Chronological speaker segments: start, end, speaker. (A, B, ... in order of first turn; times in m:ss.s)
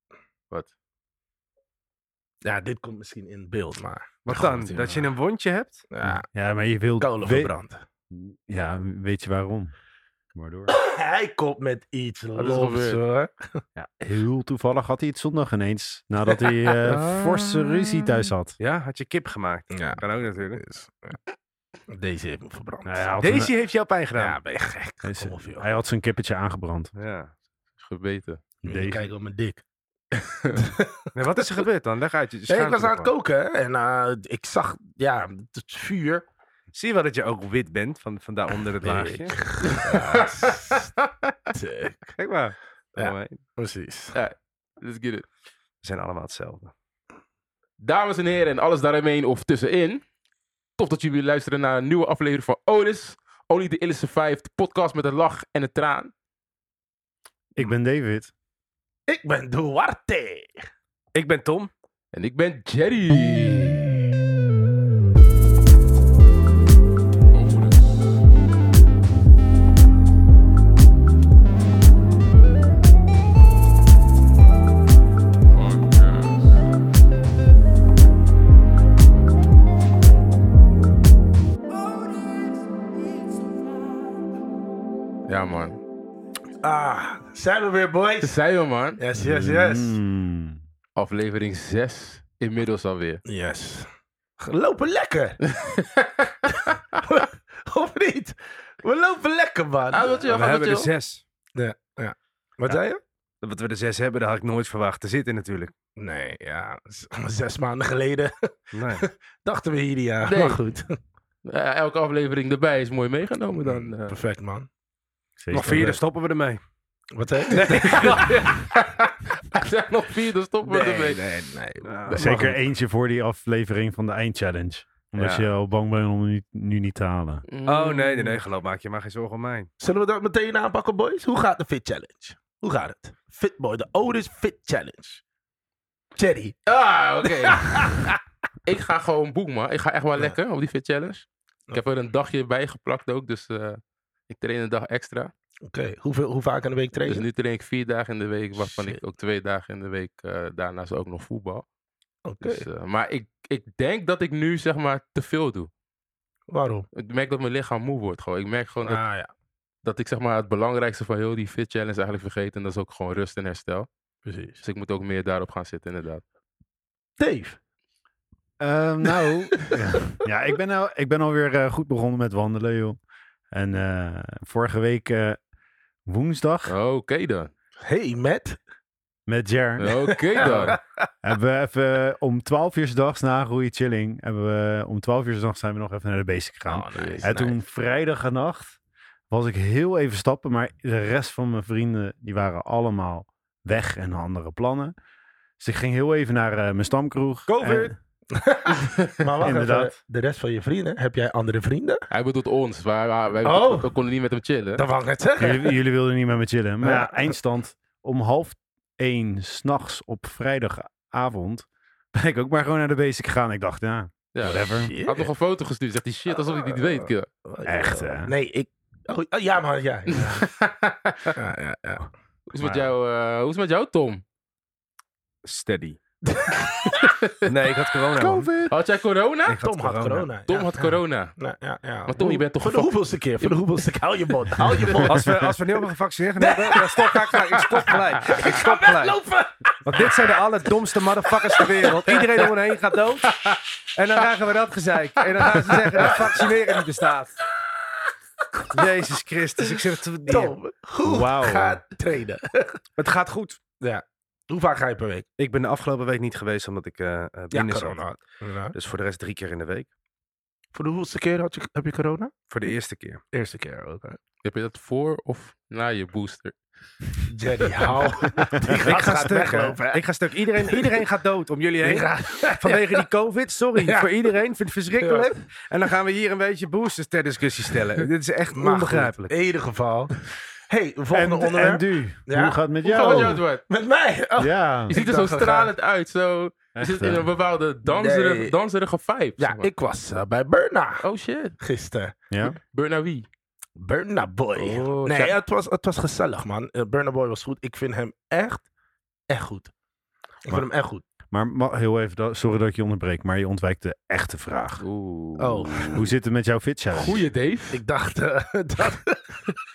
0:02.4-0:04.1 A
0:04.2-0:05.8 B
0:04.3-0:05.1 C
0:05.9-0:06.3 A
0:06.0-0:07.5 D
0:07.0-0:07.8 A
0:08.1-0:09.7 D
0:10.3-0:10.8 D
0:10.7-0:13.6 A
0:12.4-0:13.0 C
0:13.8-0:18.6 D
0:16.8-0:17.2 C
0:18.6-0:20.6 B
0:19.7-0:20.0 A
0:20.6-0:21.2 A
0:21.9-0:23.1 A
0:22.8-0:23.5 D
0:23.2-0:24.4 B
0:24.2-0:25.7 A
0:25.0-0:26.9 D
0:27.0-0:27.3 B
0:27.8-0:28.4 C
0:28.6-0:29.1 D
0:28.6-0:29.6 A
0:30.1-0:30.6 C
0:30.5-0:31.1 A
0:31.1-0:33.1 B
0:32.5-0:36.2 A
0:36.7-0:39.4 B
0:38.8-0:40.9 A
0:39.8-0:41.3 C
0:41.5-0:42.1 A
0:42.2-0:43.4 B
0:43.0-0:44.2 A
0:44.1-0:45.2 C
0:45.8-0:46.7 B
0:47.8-0:50.0 C
0:50.8-0:56.1 C
0:57.6-0:58.3 D
0:59.1-1:00.6 A
1:01.1-1:01.7 B
1:02.1-1:04.0 C
1:07.3-1:07.8 C
1:15.6-1:16.5 C
1:25.2-1:25.8 C
1:26.6-1:28.3 A
1:28.2-1:29.0 C
1:29.0-1:30.0 A
1:29.2-1:30.6 D
1:31.0-1:33.2 C
1:33.2-1:35.4 A
1:35.4-1:36.5 C
1:37.0-1:40.1 A
1:39.9-1:40.9 C
1:40.3-1:41.2 B
1:41.6-1:43.0 A
1:43.4-1:45.7 B
1:46.0-1:51.0 A
1:48.7-1:49.1 B
1:50.3-1:50.6 C
1:51.4-1:54.2 C
1:53.6-1:54.7 A
1:55.4-1:56.0 D
1:55.5-1:56.6 B
1:55.6-1:56.0 A
1:57.1-1:58.3 A
1:57.5-1:58.7 B
1:58.7-2:01.2 C
2:00.6-2:02.6 A
2:01.8-2:02.2 B
2:02.1-2:07.4 D
2:05.2-2:05.4 B
2:07.5-2:08.4 C
2:07.6-2:09.7 B
2:09.8-2:15.2 A
2:16.2-2:16.6 A
2:16.7-2:18.0 C
2:17.2-2:18.2 A
2:18.6-2:25.3 C
2:25.7-2:27.2 A
2:27.0-2:31.6 C
2:28.6-2:29.0 A
2:32.2-2:32.7 A
2:32.4-2:35.7 C
2:36.5-2:36.8 A
2:36.9-2:39.0 C
2:38.8-2:39.3 A
2:39.8-2:43.9 C
2:44.2-2:44.6 A
2:44.6-2:46.2 C
2:47.2-2:47.6 A
2:48.6-2:53.0 D
2:53.5-2:55.4 D
2:56.1-2:56.8 D
2:56.7-2:57.5 C
2:57.8-2:58.6 A
2:59.3-3:08.8 D
2:59.8-3:00.8 C
3:00.4-3:00.8 A
3:06.6-3:07.6 A
3:09.3-3:14.9 D
3:15.6-3:18.0 D
3:17.5-3:17.9 B
3:18.3-3:22.0 A
3:19.4-3:19.9 D
3:22.1-3:24.8 C
3:23.4-3:23.9 A
3:24.8-3:25.7 A
3:25.4-3:34.9 D
3:26.8-3:27.3 A
3:34.3-3:37.3 C
3:34.7-3:35.3 A
3:36.3-3:40.5 A
3:37.6-3:38.3 D
3:40.1-3:41.3 C
3:41.4-3:42.1 A
3:42.5-3:44.2 C
3:42.6-3:42.9 D
3:45.4-3:46.0 B
3:46.2-3:47.0 A
3:47.0-3:47.4 C
3:47.5-3:48.5 B
3:48.1-3:48.7 D
3:48.7-3:49.6 C
3:49.4-3:50.3 B
3:49.6-3:55.2 A
3:50.5-3:51.4 C
3:52.0-3:53.6 C
3:55.0-3:59.2 B
3:56.4-4:00.7 A
3:59.8-4:03.3 B
4:01.3-4:02.2 A
4:03.9-4:07.3 B
4:05.9-4:06.6 A
4:08.5-4:08.8 A
4:08.7-4:10.5 B
4:09.6-4:12.8 A
4:11.0-4:11.8 D
4:13.0-4:13.6 B
4:13.8-4:15.3 A
4:15.4-4:18.2 B
4:17.5-4:18.7 A
4:18.7-4:19.9 B
4:20.7-4:22.3 A
4:22.5-4:23.2 B
4:23.3-4:24.2 A
4:24.4-4:26.5 C
4:27.3-4:30.0 A
4:28.4-4:28.7 D
4:28.8-4:39.3 B
4:30.6-4:31.0 A
4:31.8-4:33.0 A
4:33.8-4:34.1 A
4:35.0-4:35.3 A
4:38.5-4:40.2 A
4:40.7-4:45.7 A
4:41.1-4:43.4 D
4:42.8-4:43.6 C
4:44.4-4:44.9 D
4:44.9-4:49.7 C
4:46.8-4:47.3 D
4:47.8-4:48.5 A
4:49.4-4:51.0 A
4:51.0-4:51.6 C
4:51.6-4:52.1 A
4:52.3-4:52.6 D
4:52.7-4:53.3 C
4:53.8-4:58.6 A
4:54.6-4:55.4 C
4:59.3-4:59.7 A
5:00.4-5:01.0 A
5:01.3-5:04.8 D
5:04.8-5:06.0 C
5:05.4-5:06.0 A
5:05.9-5:07.2 D
5:07.0-5:07.8 C
5:07.7-5:09.5 A